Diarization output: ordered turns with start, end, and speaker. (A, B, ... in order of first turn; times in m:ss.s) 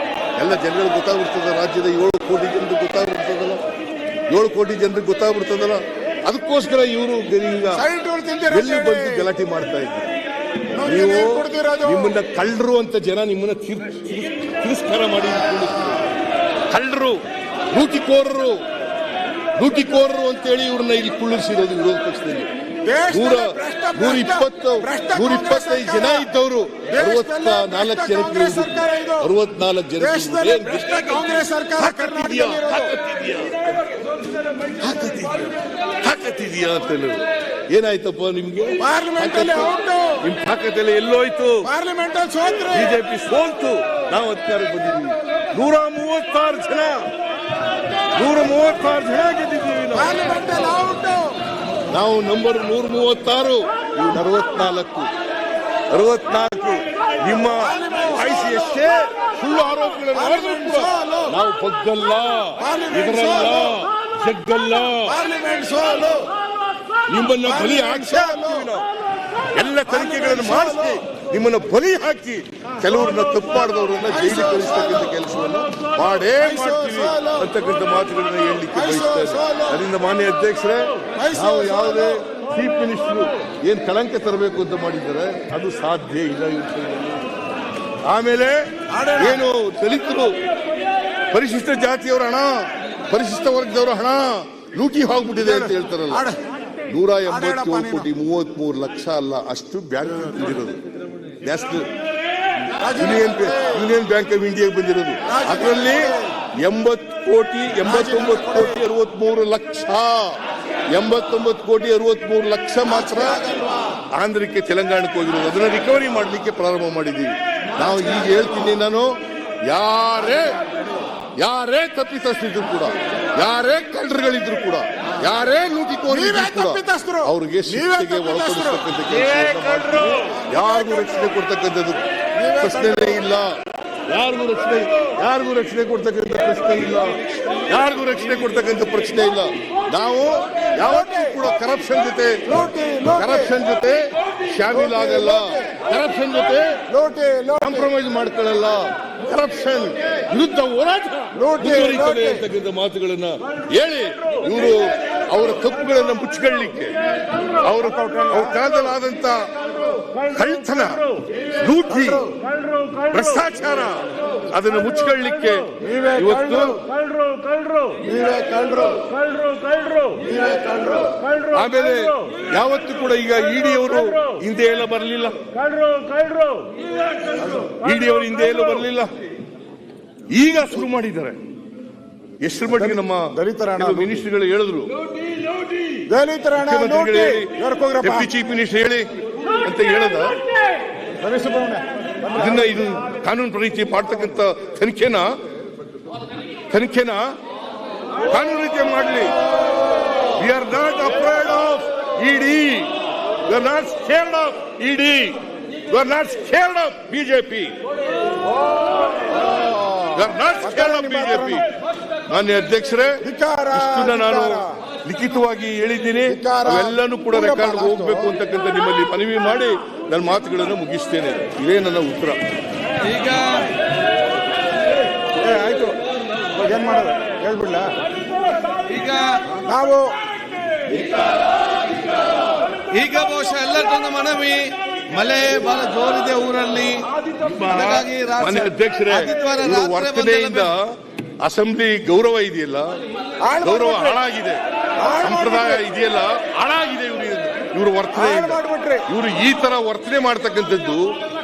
0:00.4-0:03.6 A
0:04.3-0:07.8 A
0:07.7-0:09.3 B
0:08.5-0:10.1 A
0:10.8-0:12.2 B
0:10.8-0:16.0 A
0:16.7-0:17.2 A
0:17.7-0:18.6 A
0:19.6-0:22.5 A
0:22.8-0:26.3 B
0:23.1-0:33.8 A
0:26.9-0:29.3 B
0:30.0-0:32.9 B
0:34.8-0:41.7 A
0:38.8-0:40.2 B
0:41.6-0:43.0 B
0:42.7-0:47.1 A
0:48.1-0:50.2 A
0:49.9-0:51.4 B
0:51.9-0:55.1 A
0:55.9-1:05.2 A
0:57.5-0:58.8 B
1:00.1-1:01.4 B
1:02.6-1:03.8 B
1:05.0-1:06.3 B
1:07.1-1:08.9 A
1:07.4-1:08.7 B
1:09.5-1:27.3 A
1:09.9-1:11.0 B
1:14.1-1:15.1 B
1:16.4-1:17.5 B
1:18.7-1:19.8 B
1:21.2-1:22.2 B
1:28.0-1:30.4 A
1:28.9-1:29.4 B
1:31.3-1:36.3 A
1:35.4-1:36.4 B
1:36.9-1:40.8 A
1:37.3-1:38.1 B
1:41.4-1:41.9 A
1:42.8-1:43.8 B
1:42.9-1:50.4 A
1:45.3-1:46.3 B
1:47.8-1:48.8 B
1:50.9-1:53.4 A
1:52.8-1:54.0 B
1:54.1-1:59.1 A
1:59.7-2:00.6 A
2:01.4-2:12.0 A
2:06.1-2:08.8 B
2:10.1-2:10.3 B
2:12.4-2:13.2 B
2:12.6-2:13.5 A
2:14.1-2:22.4 A
2:20.7-2:21.4 B
2:22.5-2:23.6 B
2:23.1-2:26.8 A
2:24.7-2:25.8 B
2:26.9-2:27.9 B
2:27.6-2:36.9 A
2:31.3-2:32.4 B
2:37.6-2:39.5 A
2:37.8-2:38.6 B
2:40.2-2:41.1 A
2:41.6-2:42.2 A
2:43.1-2:46.8 A
2:45.8-2:46.8 B
2:48.0-2:49.1 B
2:50.2-2:51.2 B
2:51.5-2:55.4 A
2:57.7-2:59.1 A
3:00.3-3:01.4 A
3:02.4-3:04.9 A
3:02.8-3:04.2 B
3:06.1-3:08.3 B
3:06.6-3:07.5 A
3:08.0-3:09.0 A
3:09.6-3:10.4 A
3:11.2-3:12.8 B
3:12.4-3:15.3 A
3:16.7-3:17.3 A
3:18.3-3:19.3 A
3:20.3-3:22.9 A
3:23.4-3:25.4 A
3:25.9-3:27.7 A
3:29.3-3:31.6 B
3:30.1-3:31.7 A
3:32.3-3:33.2 A
3:33.2-3:34.8 B
3:33.7-3:42.4 A
3:36.3-3:38.3 B
3:43.0-3:43.7 C
3:45.3-3:46.0 B
3:46.5-3:47.9 B
3:48.8-3:49.4 C
3:49.6-3:50.1 B
3:52.9-4:00.7 C
3:57.4-4:00.9 A
4:01.4-4:03.0 A
4:03.4-4:04.2 B
4:03.6-4:04.6 A
4:05.0-4:05.8 B
4:05.2-4:11.1 A
4:08.1-4:09.1 B